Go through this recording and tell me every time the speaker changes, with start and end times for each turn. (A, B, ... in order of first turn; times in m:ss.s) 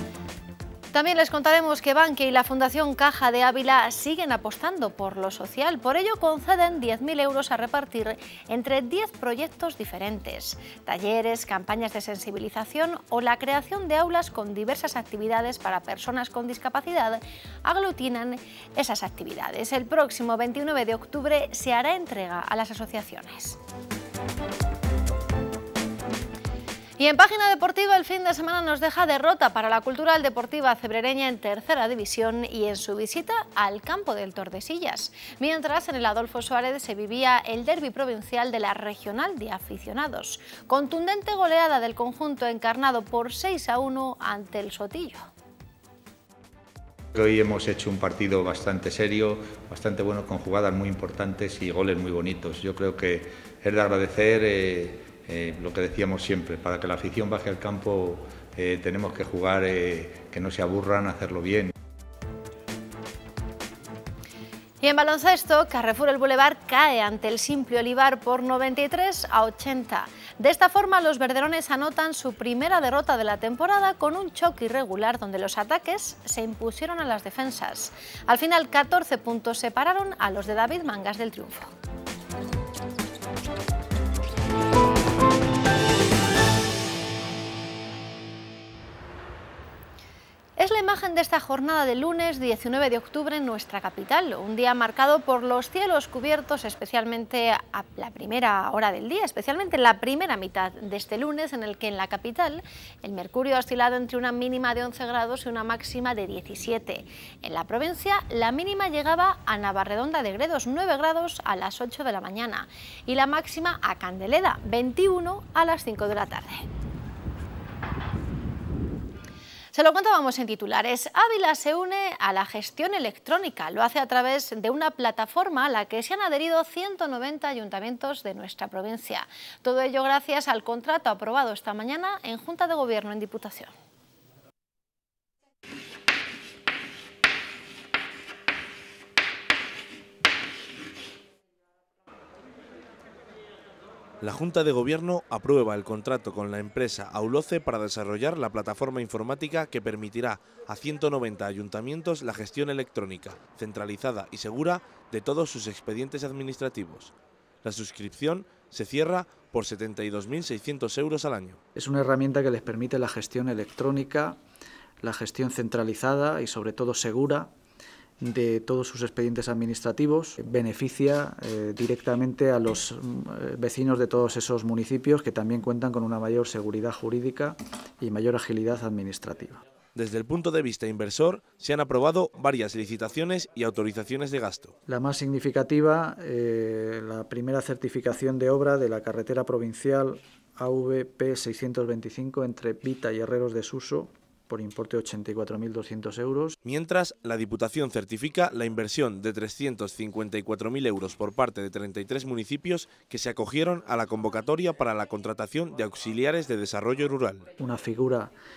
0:00.9-0:23.6 A
0:27.0-0:45.3 A
0:47.2-1:01.7 B
1:04.8-1:21.7 A
1:30.6-1:56.6 A
1:59.7-2:13.7 A
2:24.2-2:41.6 C
2:41.8-2:44.4 D
2:45.0-2:47.5 D
2:48.2-2:59.6 D
3:00.0-3:04.8 C
3:04.9-3:16.6 D
3:16.6-3:27.5 C
3:27.6-3:28.3 D